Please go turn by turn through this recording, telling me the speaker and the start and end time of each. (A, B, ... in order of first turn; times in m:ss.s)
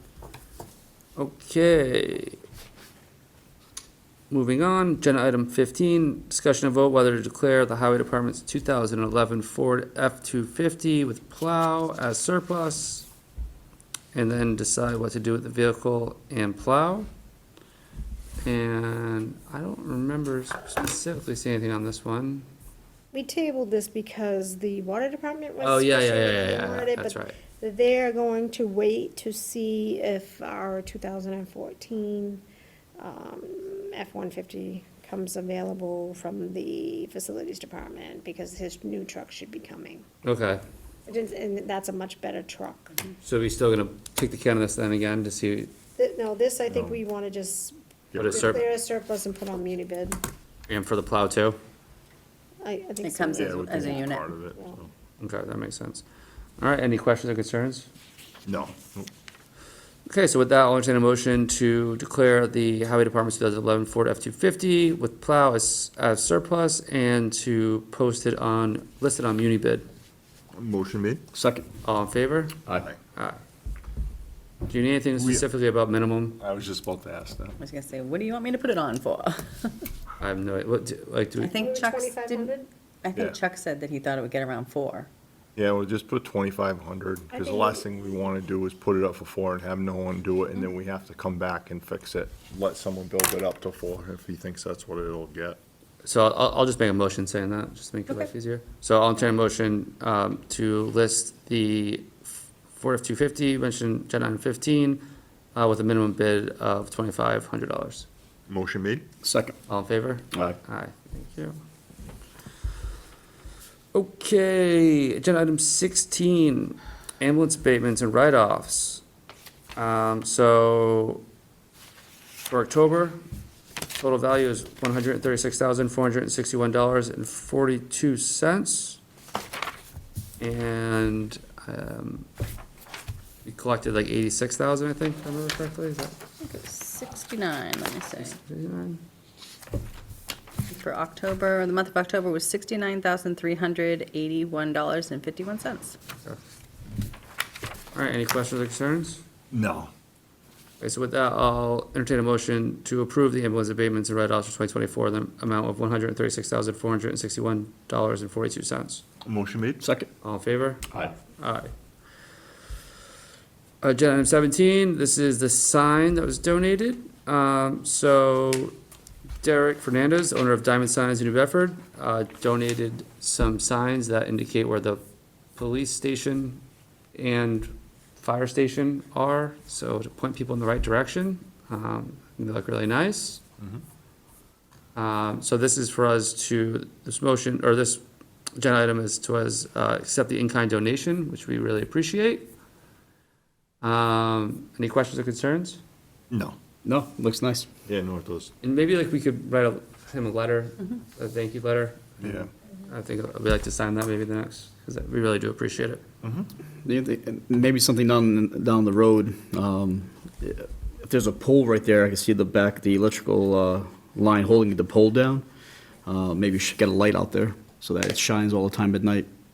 0:01.2-0:02.4 A
0:04.3-0:13.1 A
0:14.1-0:17.1 A
0:18.4-0:22.5 A
0:23.1-0:32.4 B
0:25.6-0:27.4 A
0:33.0-0:40.0 B
0:40.2-0:40.6 A
0:41.1-0:43.0 B
0:43.2-0:45.7 A
0:46.0-0:50.2 B
0:46.7-0:47.0 C
0:48.1-0:48.6 C
0:48.2-0:48.6 A
0:50.7-0:51.6 A
0:52.6-0:54.8 B
0:53.0-0:54.3 D
0:53.4-0:54.9 C
0:55.2-0:56.0 A
0:56.6-0:57.9 A
0:58.5-0:59.1 C
1:00.1-1:09.9 A
1:10.5-1:11.2 C
1:11.3-1:11.7 E
1:11.8-1:12.6 A
1:13.2-1:13.4 A
1:14.7-1:16.4 A
1:15.2-1:15.5 C
1:16.4-1:17.6 C
1:17.6-1:19.8 D
1:20.2-1:21.7 A
1:21.4-1:22.5 D
1:21.6-1:22.7 B
1:23.0-1:25.1 D
1:25.6-1:35.6 C
1:27.3-1:28.0 B
1:36.0-1:45.0 A
1:45.6-1:48.1 A
1:48.5-1:49.0 C
1:49.2-1:49.6 E
1:49.7-1:51.6 A
1:53.9-1:59.0 A
1:59.8-2:01.2 A
2:02.5-2:03.2 A
2:04.0-2:09.0 A
2:10.4-2:12.3 A
2:13.4-2:16.2 A
2:16.4-2:18.4 D
2:18.2-2:19.0 A
2:20.7-2:26.0 D
2:27.9-2:29.2 A
2:29.5-2:29.9 C
2:30.8-2:39.0 A
2:39.2-2:39.8 C
2:39.8-2:40.1 E
2:40.2-2:41.7 A
2:43.8-2:48.8 A
2:49.4-2:55.0 A
2:55.6-2:56.6 A
2:57.1-3:03.4 A
3:05.0-3:08.0 A
3:08.6-3:12.5 A
3:13.8-3:15.8 A
3:16.3-3:16.6 C
3:16.8-3:17.7 E
3:17.9-3:18.5 C
3:18.6-3:26.0 A
3:22.2-3:22.5 C
3:26.2-3:26.5 C
3:26.8-3:35.4 E
3:36.1-3:39.3 E